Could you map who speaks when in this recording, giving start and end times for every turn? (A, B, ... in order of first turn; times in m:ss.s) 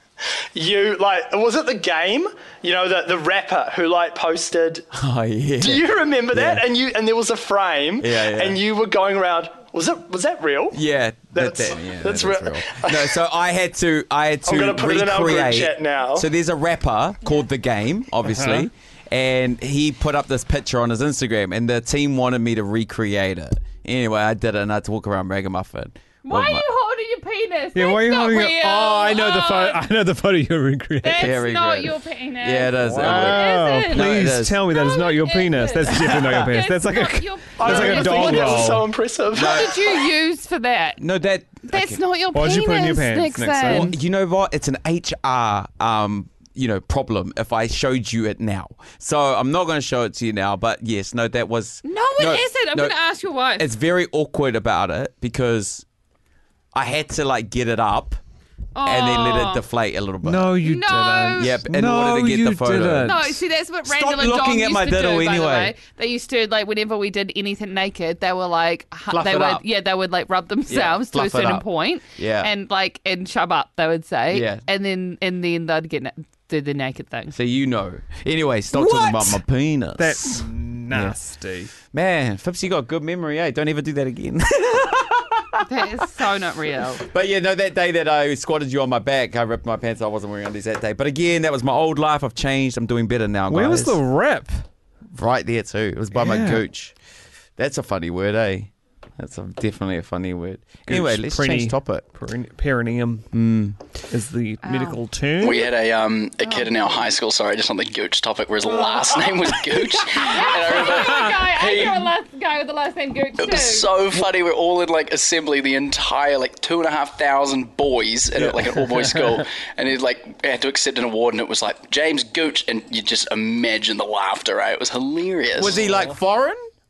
0:00.6-0:04.9 A
0:04.9-0:06.7 B
0:05.6-0:10.8 A
0:08.0-0:08.6 B
0:10.7-0:26.6 B
0:11.3-0:13.2 A
0:14.5-0:16.3 A
0:18.3-0:18.7 C
0:26.2-0:29.8 D
0:27.7-0:31.3 C
0:31.0-0:34.2 D
0:31.2-0:34.6 B
0:32.8-0:38.9 C
0:34.7-0:41.0 D
0:36.1-0:36.4 A
0:37.6-0:40.0 A
0:39.3-0:39.8 B
0:41.0-0:42.0 B
0:41.7-0:43.9 D
0:42.3-0:43.9 C
0:43.7-0:53.0 B
0:51.8-0:53.7 D
0:53.6-0:55.8 B
0:56.7-0:58.2 B
0:58.8-0:59.6 D
0:58.8-1:00.5 B
1:00.2-1:03.4 C
1:00.6-1:01.5 D
1:01.4-1:03.2 B
1:03.0-1:17.4 D
1:03.8-1:05.7 B
1:09.1-1:09.6 B
1:10.7-1:12.5 B
1:14.3-1:14.6 B
1:17.3-1:21.2 B
1:18.8-1:19.3 C
1:20.0-1:21.7 C
1:21.8-1:26.0 B
1:25.6-1:27.0 D
1:27.0-1:34.0 B
1:33.5-1:34.6 C
1:35.2-1:36.9 B
1:36.1-1:36.6 C
1:37.6-1:42.1 B
1:40.9-1:43.3 C
1:43.3-1:43.8 B
1:44.1-1:45.7 C
1:44.6-1:45.0 D
1:45.4-1:52.1 E
1:46.4-1:47.1 D
1:48.6-1:53.9 D
1:53.4-2:05.8 E
1:58.4-1:59.1 C
2:05.5-2:06.6 B